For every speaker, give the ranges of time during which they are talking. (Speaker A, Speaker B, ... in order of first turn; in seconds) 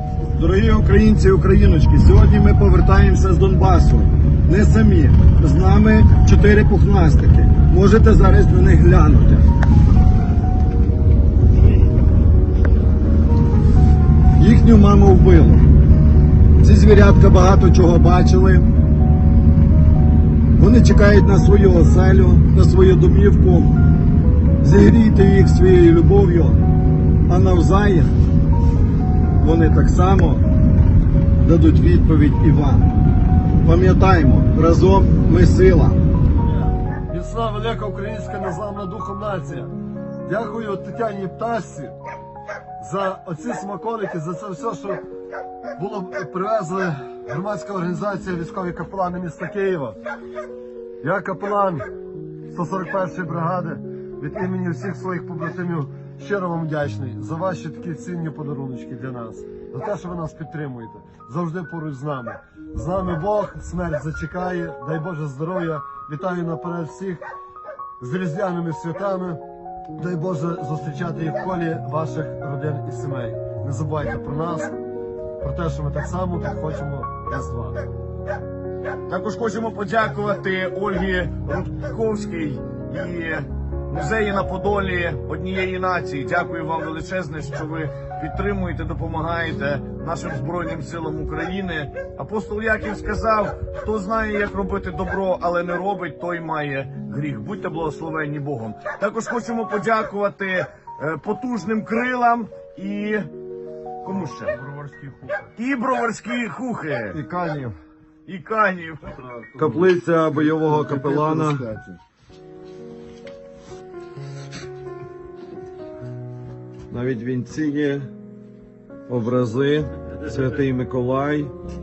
Speaker A: 0.3-9.4, 14.4-15.6, 16.6-18.7, 20.6-23.8, 24.6-26.6, 27.3-28.1, 29.4-30.4, 31.4-32.9, 33.6-36.0, 107.1-107.8, 109.5-111.7, 116.9-118.1, 119.1-121.5
Speaker B: 37.1-39.7, 40.2-41.9, 42.8-45.0, 45.8-50.0, 51.0-51.9, 52.5-67.2, 68.0-69.4, 70.0-74.8, 75.4-77.8, 110.9-111.7
Speaker C: 79.1-103.3, 104.0-104.6, 105.3-107.2, 108.2-109.1